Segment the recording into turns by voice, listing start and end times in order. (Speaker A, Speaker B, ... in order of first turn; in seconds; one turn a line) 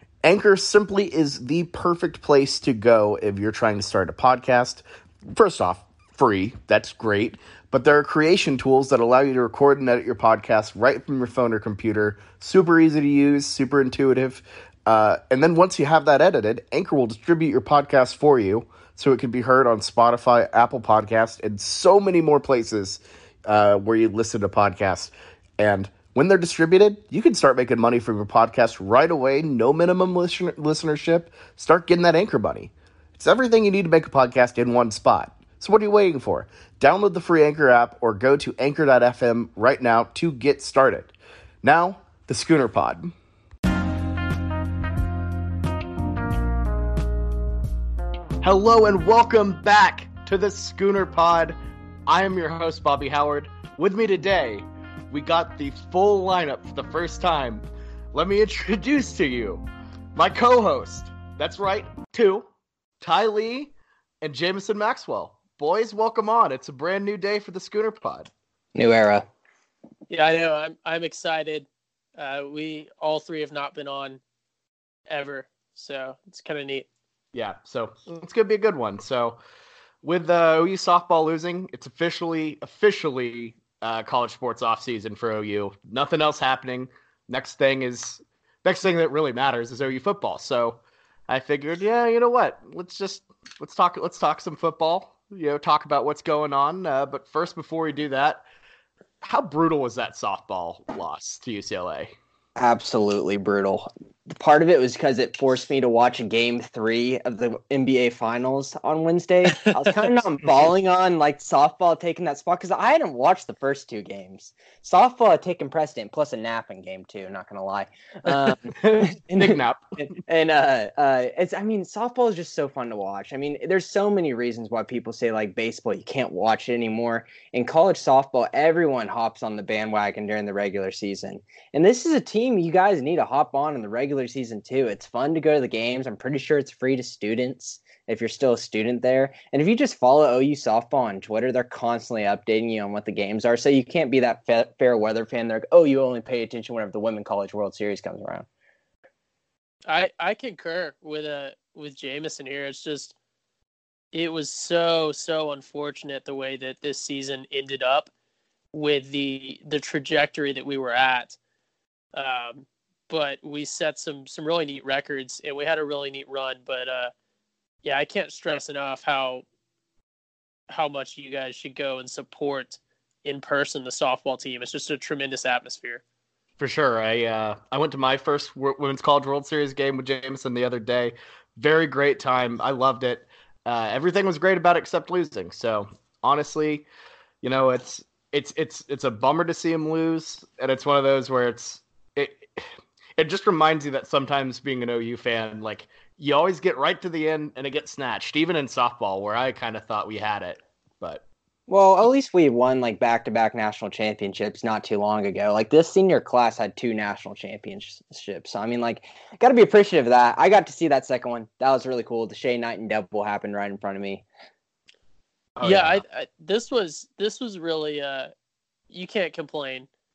Speaker A: 0.2-43.1
Speaker A: 48.4-51.5
Speaker A: 52.1-62.5
Speaker A: 63.0-68.3
Speaker B: 68.8-69.3
Speaker C: 70.1-71.7
Speaker C: 72.2-74.2
Speaker C: 75.1-76.9
Speaker A: 77.3-79.4
Speaker A: 80.0-98.4
Speaker A: 99.2-102.1
Speaker B: 102.6-148.5
Speaker A: 118.7-120.0
Speaker C: 149.9-153.1
Speaker C: 154.1-158.1
Speaker C: 158.7-161.4
Speaker C: 162.1-167.1
Speaker C: 167.8-169.4
Speaker C: 170.7-176.0
Speaker A: 176.6-186.8
Speaker A: 187.4-201.2
Speaker B: 201.7-214.2
Speaker A: 215.6-216.0
Speaker C: 215.6-218.3
Speaker C: 218.9-219.9